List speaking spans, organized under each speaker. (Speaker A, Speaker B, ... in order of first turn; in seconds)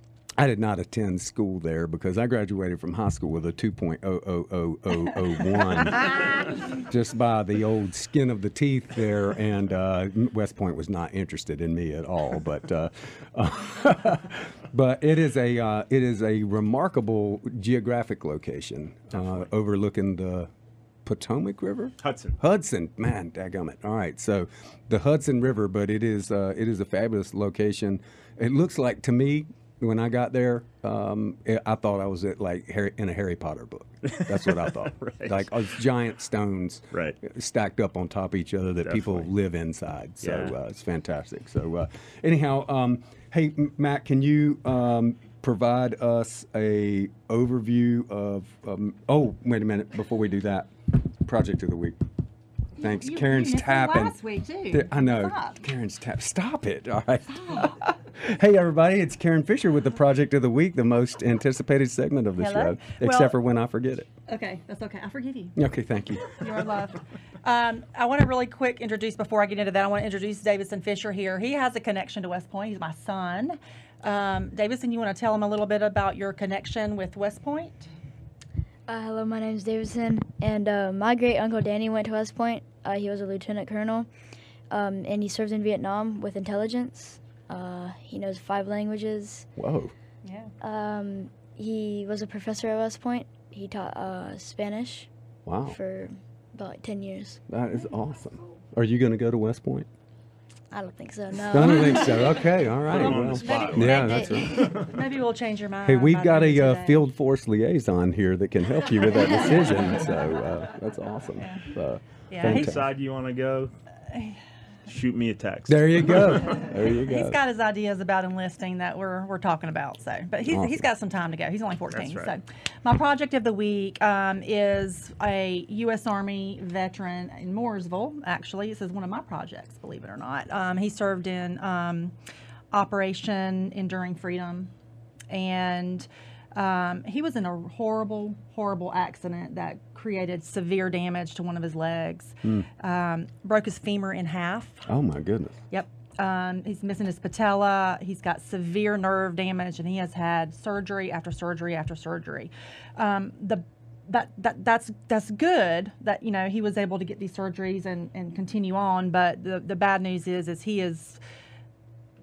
Speaker A: 0.4-20.5, 21.0-52.0, 52.8-54.1, 54.7-64.1, 65.5-66.4, 89.5-89.9, 95.5-95.8, 97.5-99.9, 101.5-104.8, 105.8-112.8, 115.7-117.4, 120.5-120.8, 144.8-145.6
Speaker B: 19.1-19.4, 22.0-22.4, 34.0-35.5, 36.9-37.2, 38.8-39.3, 40.2-40.5, 102.8-104.9, 112.4-113.7, 114.9-116.5, 121.9-122.3
Speaker C: 52.8-55.6, 57.4-57.7, 62.4-63.3, 64.3-65.6, 66.3-77.9, 90.2-90.5, 103.4-107.0, 111.4-111.7, 112.3-112.7, 114.1-114.4, 116.8-132.1, 132.7-134.7, 135.3-144.9, 145.7-161.2
Speaker D: 78.9-84.1, 84.7-89.5, 90.6-95.1, 95.7-97.4, 100.7-102.5, 103.5-104.5